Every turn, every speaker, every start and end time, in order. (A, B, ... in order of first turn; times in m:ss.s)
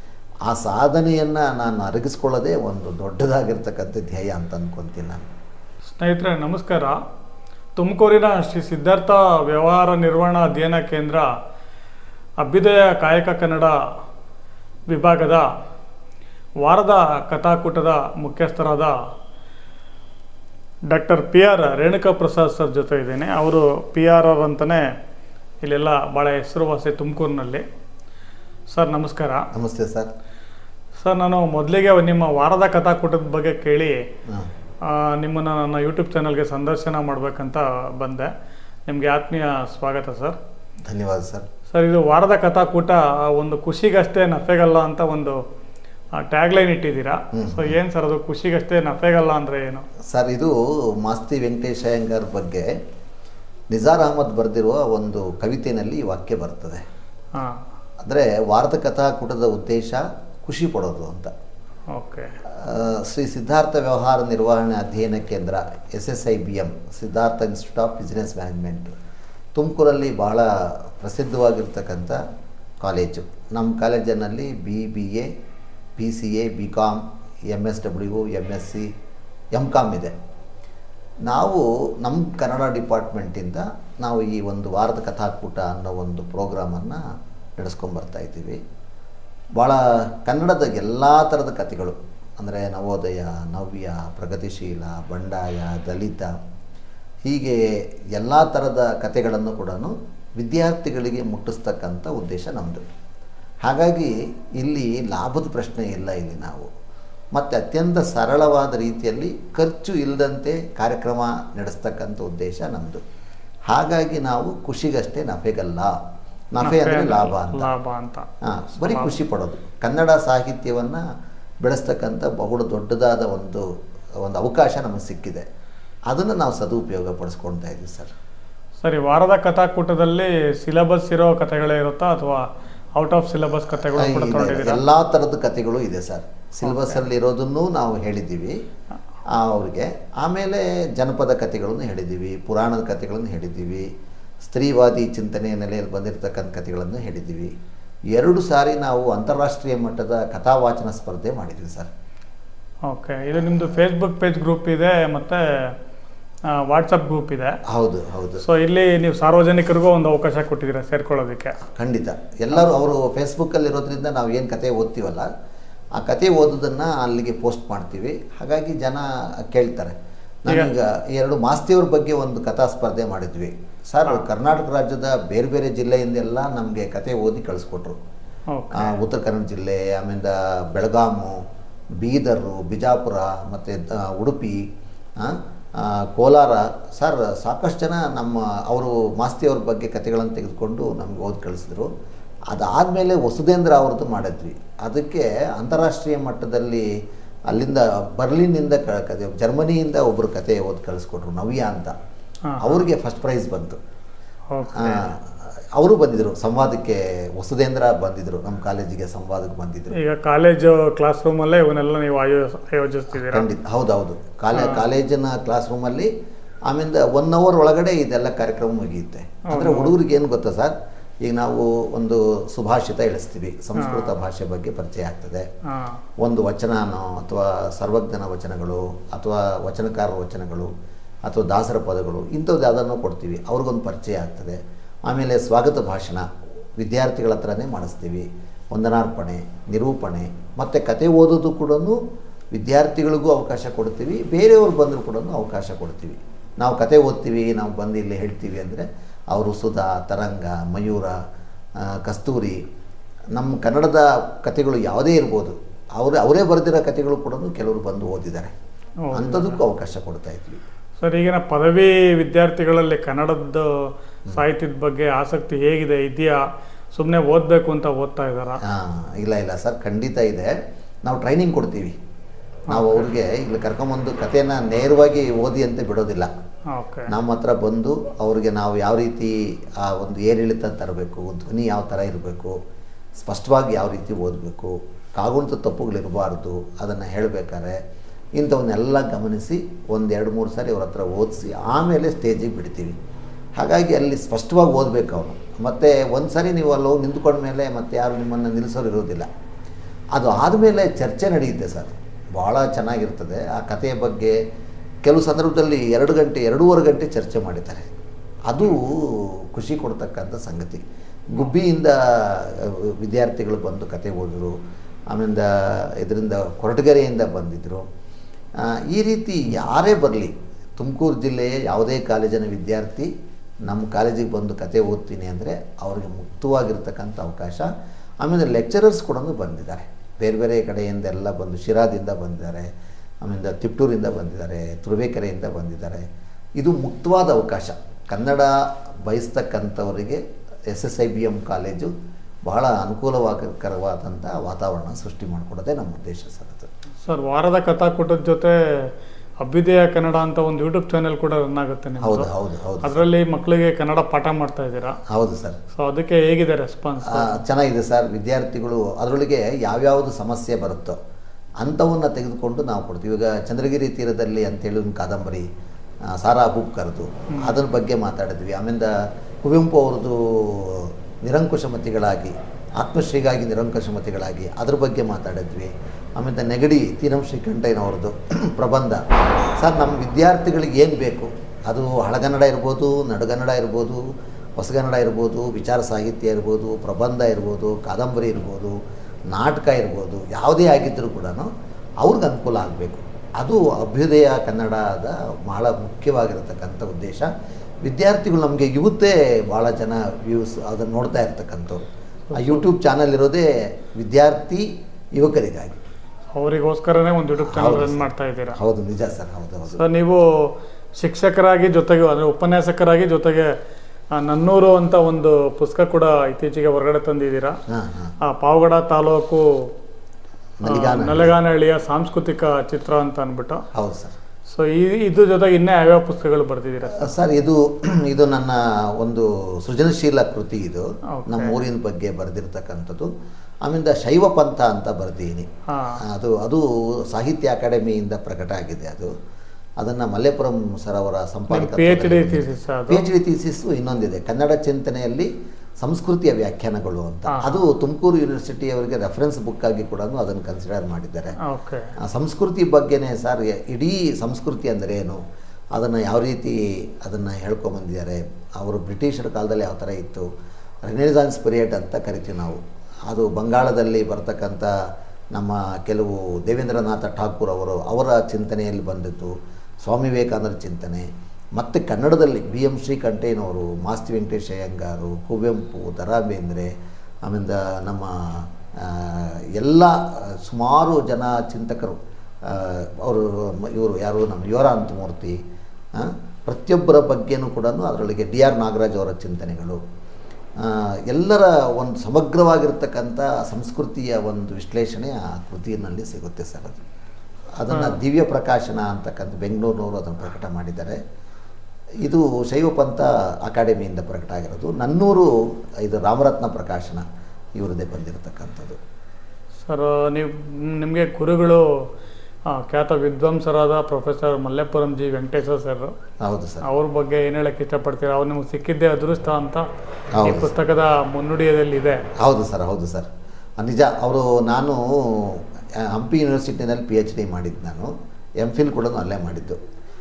0:00.5-0:05.3 A
0:06.0-0:07.0 B
0:07.8-0:11.3 B
0:12.4-0:13.8 B
0:14.9-0:15.5 B
0:16.6-0:19.0 B
0:20.9-0:24.9 B
0:25.6-0:27.6 B
0:28.7-0:29.5 B
0:29.5-0:30.1 A
0:31.0-0:34.0 B
0:34.8-0:38.3 B
0:38.9-0:40.4 B
0:40.8-0:41.5 A
0:41.7-0:45.4 B
0:46.2-0:49.9 B
0:47.3-0:47.8 A
0:50.1-0:52.7 A
0:53.7-0:56.8 A
0:57.4-0:57.6 B
0:58.1-1:01.3 A
1:01.9-1:02.3 B
1:02.5-1:08.9 A
1:09.6-1:12.2 A
1:12.8-1:15.3 A
1:16.0-1:18.9 A
1:19.6-1:20.1 A
1:21.3-1:27.0 A
1:27.6-1:28.6 A
1:29.6-1:36.3 A
1:37.3-1:37.6 A
1:38.2-1:42.8 A
1:43.6-1:46.7 A
1:47.3-1:53.0 A
1:53.7-1:56.0 A
1:56.5-1:57.7 A
1:56.6-1:58.3 B
1:58.4-2:01.0 A
1:58.8-1:59.2 B
2:01.6-2:03.6 A
2:04.2-2:05.4 A
2:06.1-2:08.1 A
2:08.8-2:14.8 B
2:13.9-2:18.6 A
2:16.6-2:17.0 B
2:19.3-2:23.9 A
2:24.4-2:27.5 A
2:28.1-2:31.9 A
2:32.9-2:35.8 B
2:36.5-2:37.6 B
2:37.7-2:38.4 A
2:38.4-2:41.6 B
2:41.6-2:45.3 A
2:46.0-2:58.0 A
2:58.5-2:59.0 B
2:58.7-3:01.4 A
3:02.0-3:04.6 A
3:05.2-3:11.9 A
3:12.5-3:16.8 A
3:17.5-3:21.9 A
3:22.5-3:22.8 B
3:22.6-3:23.8 A
3:24.5-3:25.1 B
3:24.7-3:30.0 A
3:30.0-3:33.5 B
3:33.2-3:36.1 A
3:34.5-3:34.8 B
3:36.7-3:45.5 A
3:39.5-3:40.0 B
3:43.8-3:44.1 B
3:45.7-3:46.0 B
3:46.2-3:50.7 A
3:51.3-3:56.3 A
3:56.8-4:02.0 A
4:02.5-4:11.1 A
4:11.9-4:12.6 A
4:13.4-4:18.5 A
4:19.0-4:19.6 B
4:19.2-4:20.6 A
4:21.0-4:23.7 B
4:24.3-4:28.6 B
4:28.7-4:30.5 A
4:31.1-4:32.0 A
4:32.7-4:33.1 B
4:32.7-4:36.3 A
4:36.7-4:37.1 B
4:37.1-4:42.6 A
4:43.2-4:47.8 A
4:48.4-4:53.0 A
4:53.6-4:59.3 A
5:00.1-5:04.4 A
5:05.1-5:07.9 A
5:08.5-5:14.6 A
5:15.1-5:17.9 A
5:18.6-5:23.1 A
5:23.7-5:27.7 A
5:28.2-5:32.7 A
5:33.2-5:36.0 A
5:36.6-5:38.6 A
5:39.1-5:41.9 A
5:42.5-5:46.7 A
5:47.0-5:48.6 B
5:49.4-5:52.3 B
5:52.0-5:53.0 A
5:52.8-5:55.0 B
5:55.1-5:55.6 A
5:55.8-5:57.4 B
5:57.0-6:01.0 A
6:01.6-6:05.5 A
6:06.2-6:08.9 A
6:07.3-6:07.6 B
6:09.4-6:19.0 A
6:19.6-6:24.0 A
6:24.6-6:28.8 A
6:29.3-6:31.5 A
6:32.0-6:37.3 A
6:37.8-6:45.8 A
6:42.3-6:42.7 B
6:46.3-6:48.6 B
6:47.4-6:49.8 A
6:49.7-6:50.2 B
6:51.0-6:53.5 B
6:54.1-6:57.6 B
6:57.7-6:58.1 A
6:58.2-6:59.4 B
7:00.6-7:01.3 A
7:00.7-7:03.6 B
7:03.7-7:04.2 A
7:04.5-7:07.2 B
7:06.9-7:13.1 A
7:11.1-7:11.6 B
7:13.6-7:15.5 A
7:15.7-7:16.0 B
7:16.1-7:19.1 A
7:19.8-7:25.3 A
7:21.5-7:23.0 B
7:25.8-7:31.4 A
7:27.3-7:27.6 B
7:31.5-7:31.9 B
7:32.0-7:35.2 A
7:35.8-7:40.3 A
7:40.9-7:44.7 A
7:45.3-7:49.3 A
7:49.8-7:56.7 A
7:57.3-8:05.4 A
8:06.0-8:09.8 A
8:10.6-8:16.8 A
8:17.6-8:21.0 A
8:17.7-8:18.0 B
8:22.0-8:25.3 A
8:25.8-8:27.0 A
8:27.6-8:28.8 A
8:29.7-8:31.6 B
8:32.5-8:36.0 B
8:36.2-8:36.6 A
8:36.6-8:39.7 B
8:40.2-8:40.5 A
8:40.2-8:42.0 B
8:42.2-8:49.6 A